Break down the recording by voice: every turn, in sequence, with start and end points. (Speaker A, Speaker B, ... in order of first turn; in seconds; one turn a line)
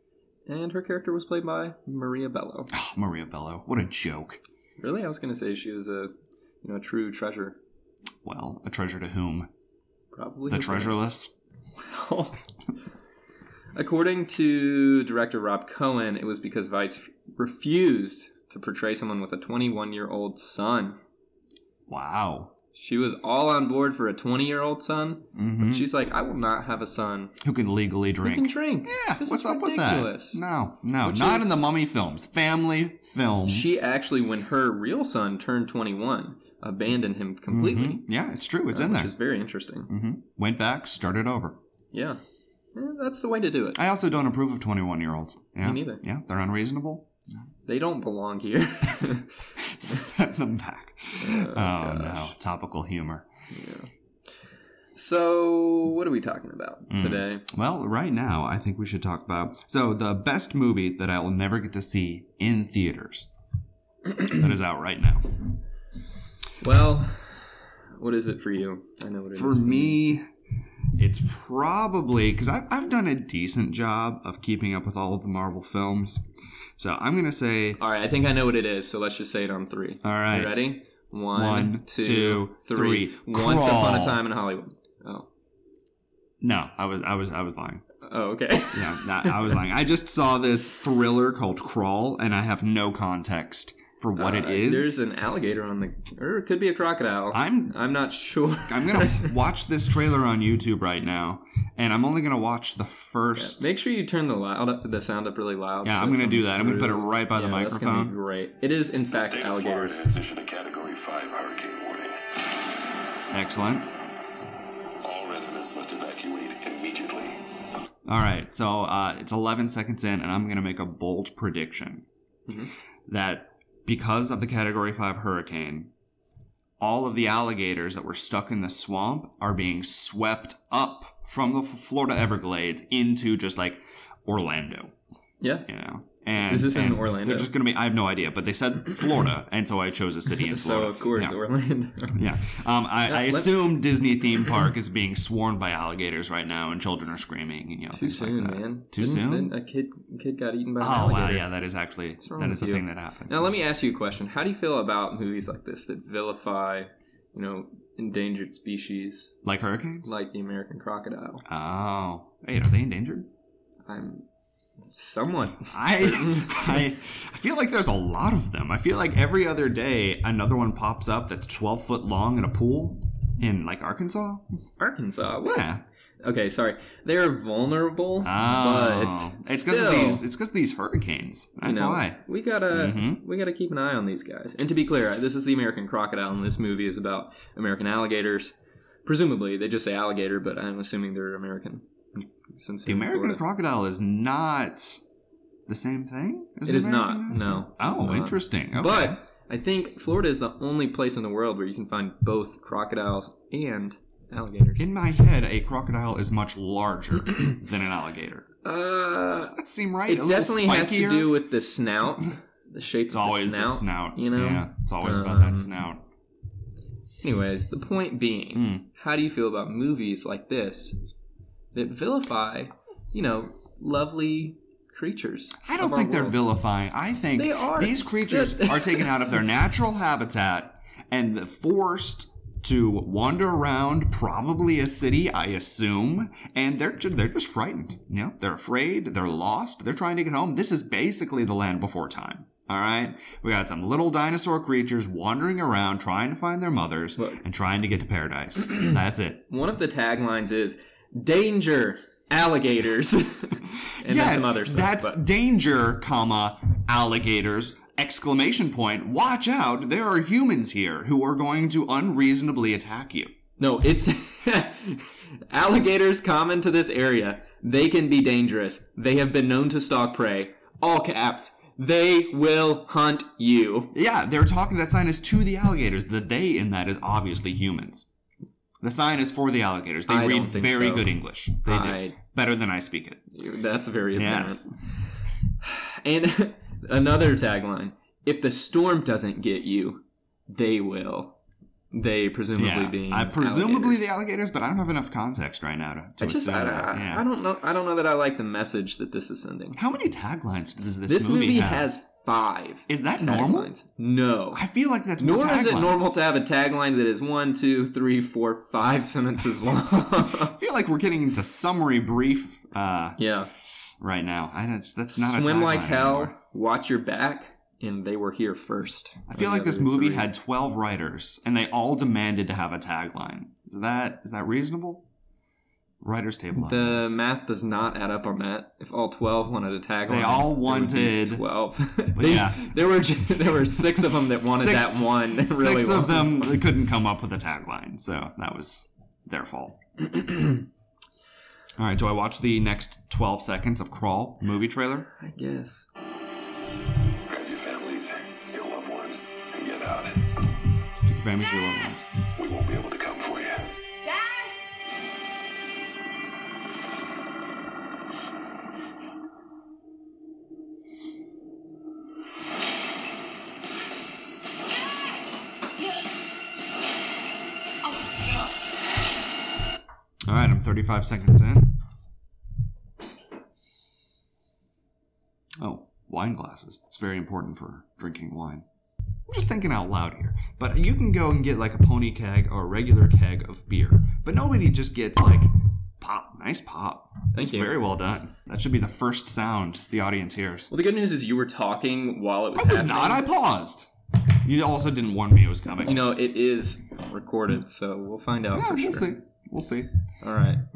Speaker A: 0.5-2.7
Speaker B: 2.7-4.4
Speaker A: 4.8-7.6
Speaker B: 8.2-9.5
Speaker A: 10.1-11.1
Speaker B: 10.5-11.3
Speaker A: 11.8-12.4
Speaker A: 13.7-21.0
Speaker B: 21.9-22.5
Speaker A: 22.7-27.4
Speaker B: 25.3-25.9
Speaker B: 27.4-33.8
Speaker A: 28.2-30.4
Speaker A: 31.0-31.7
Speaker A: 33.5-38.0
Speaker B: 37.5-39.1
Speaker A: 38.7-39.9
Speaker B: 39.9-41.6
Speaker A: 41.9-42.2
Speaker A: 42.7-43.8
Speaker B: 43.8-47.1
Speaker A: 45.6-46.0
Speaker A: 47.6-49.5
Speaker B: 49.6-53.3
Speaker A: 51.2-52.3
Speaker A: 53.5-53.9
Speaker A: 55.0-57.4
Speaker B: 56.9-63.3
Speaker B: 64.3-65.4
Speaker A: 66.6-70.0
Speaker B: 69.3-70.3
Speaker B: 71.0-77.8
Speaker A: 77.8-85.3
Speaker B: 80.0-80.6
Speaker B: 81.3-84.2
Speaker B: 86.4-87.8
Speaker A: 88.0-89.6
Speaker B: 88.7-95.0
Speaker A: 94.2-99.3
Speaker B: 97.3-97.8
Speaker B: 98.7-103.8
Speaker A: 103.3-110.2
Speaker B: 105.8-108.1
Speaker C: 109.1-112.6
Speaker B: 113.3-113.9
Speaker C: 115.0-117.4
Speaker B: 118.0-122.0
Speaker A: 122.5-122.7
Speaker B: 123.1-125.9
Speaker B: 126.8-134.9
Speaker A: 135.4-135.7
Speaker B: 135.7-141.4
Speaker A: 136.4-137.5
Speaker A: 140.3-142.2
Speaker B: 142.1-149.5
Speaker A: 143.1-143.6
Speaker A: 147.9-151.4
Speaker B: 150.8-153.5
Speaker A: 152.2-159.3
Speaker B: 159.4-160.1
Speaker A: 160.0-161.4
Speaker B: 161.4-163.3
Speaker A: 163.9-164.2
Speaker A: 164.8-166.9
Speaker B: 165.7-174.5
Speaker A: 174.8-175.7
Speaker B: 175.4-175.8
Speaker A: 176.2-180.2
Speaker B: 178.2-183.2
Speaker A: 181.6-193.4
Speaker B: 192.8-195.0
Speaker B: 195.7-199.2
Speaker A: 196.6-204.9
Speaker B: 204.8-208.5
Speaker A: 208.6-209.5
Speaker B: 209.3-211.3
Speaker A: 210.1-215.7
Speaker B: 213.1-216.0
Speaker A: 217.2-221.1
Speaker B: 218.5-218.8
Speaker A: 221.7-226.4
Speaker B: 225.6-249.5
Speaker A: 227.4-229.3
Speaker A: 247.2-247.4
Speaker A: 249.5-255.2
Speaker B: 253.7-263.3
Speaker A: 263.6-273.9
Speaker B: 273.9-278.1
Speaker B: 278.8-283.3
Speaker A: 280.1-281.1
Speaker A: 281.6-282.2
Speaker A: 283.3-291.4
Speaker B: 284.1-284.7
Speaker A: 291.9-294.1
Speaker B: 292.6-297.3
Speaker A: 296.2-299.8
Speaker B: 299.8-301.9
Speaker A: 301.1-304.6
Speaker B: 302.9-303.7
Speaker B: 304.5-306.2
Speaker A: 305.2-310.5
Speaker B: 310.3-313.2
Speaker A: 313.2-313.5
Speaker B: 313.9-316.4
Speaker A: 315.1-320.3
Speaker B: 319.3-325.1
Speaker B: 326.0-327.1
Speaker A: 326.5-336.6
Speaker B: 330.1-331.4
Speaker B: 332.1-332.8
Speaker B: 333.8-340.1
Speaker B: 341.8-345.1
Speaker A: 345.2-345.9
Speaker C: 347.3-350.4
Speaker B: 351.0-352.1
Speaker C: 352.3-353.7
Speaker B: 370.2-371.8
Speaker B: 375.6-378.6
Speaker B: 379.3-390.7
Speaker A: 387.3-387.8
Speaker A: 390.7-393.2
Speaker B: 392.6-393.9
Speaker B: 394.4-396.1
Speaker A: 395.8-399.1
Speaker B: 398.5-399.9
Speaker A: 400.2-400.6